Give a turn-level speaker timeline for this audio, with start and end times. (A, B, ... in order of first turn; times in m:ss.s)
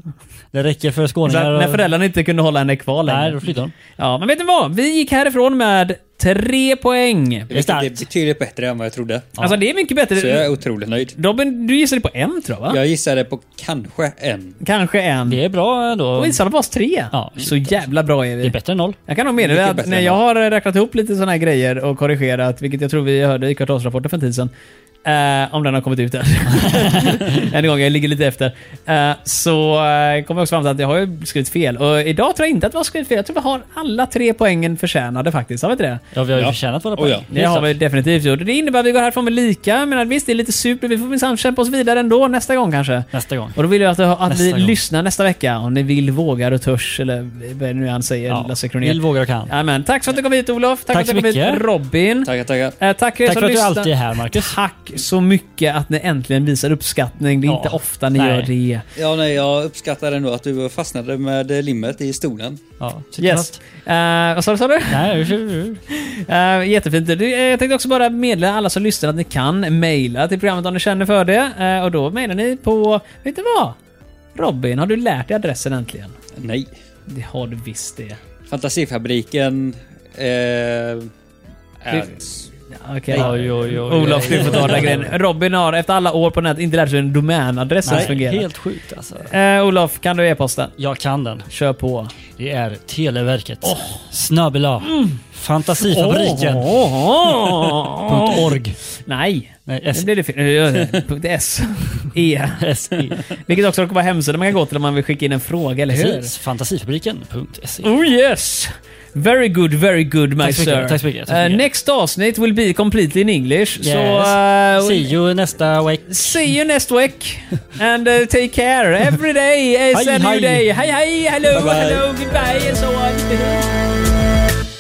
0:00.5-0:01.8 A
0:01.3-0:03.4 B
0:03.1-0:03.7 A
0:04.0-0:07.5 B
0:07.5-0:09.4 C
0:07.5-0:08.0 A
0:09.4-0:10.6 B
0:10.2-0:11.2 C
0:11.2-0:12.8 B
0:12.7-0:14.6 C
0:14.6-0:15.4 B
0:15.3-0:16.4 A
0:16.2-0:18.6 B
0:17.1-0:19.0 A
0:19.1-0:24.5 B
0:19.4-0:20.2 C
0:25.0-0:36.0 B
0:26.6-0:27.2 A
0:36.1-0:37.8 A
0:36.3-0:37.2 C
0:37.3-0:58.9 B
0:43.1-0:43.6 A
0:44.3-0:44.8 A
0:48.3-0:49.5 A
0:50.9-0:51.6 A
0:52.2-0:52.8 C
0:53.2-0:54.6 A
0:57.5-0:58.5 A
0:59.0-1:02.6 C
1:02.8-1:03.6 A
1:03.2-1:05.1 B
1:04.9-1:05.8 A
1:05.9-1:13.8 B
1:14.4-1:16.2 B
1:16.4-1:16.7 C
1:17.1-1:18.2 B
1:18.5-1:21.1 C
1:21.8-1:22.5 C
1:22.7-1:28.5 B
1:23.1-1:25.2 A
1:24.3-1:24.9 C
1:27.8-1:29.3 A
1:27.9-1:28.1 C
1:29.3-1:30.8 B
1:30.8-1:31.5 A
1:31.5-1:32.1 B
1:32.4-1:38.8 A
1:33.6-1:34.0 B
1:34.8-1:35.2 B
1:35.8-1:38.6 B
1:39.1-1:46.3 B
1:39.7-1:40.1 A
1:42.6-1:43.2 A
1:45.9-1:47.9 A
1:47.8-1:55.1 B
1:50.4-1:51.6 A
1:53.8-1:56.5 A
1:56.1-2:03.7 B
1:59.9-2:00.7 A
2:01.5-2:02.0 C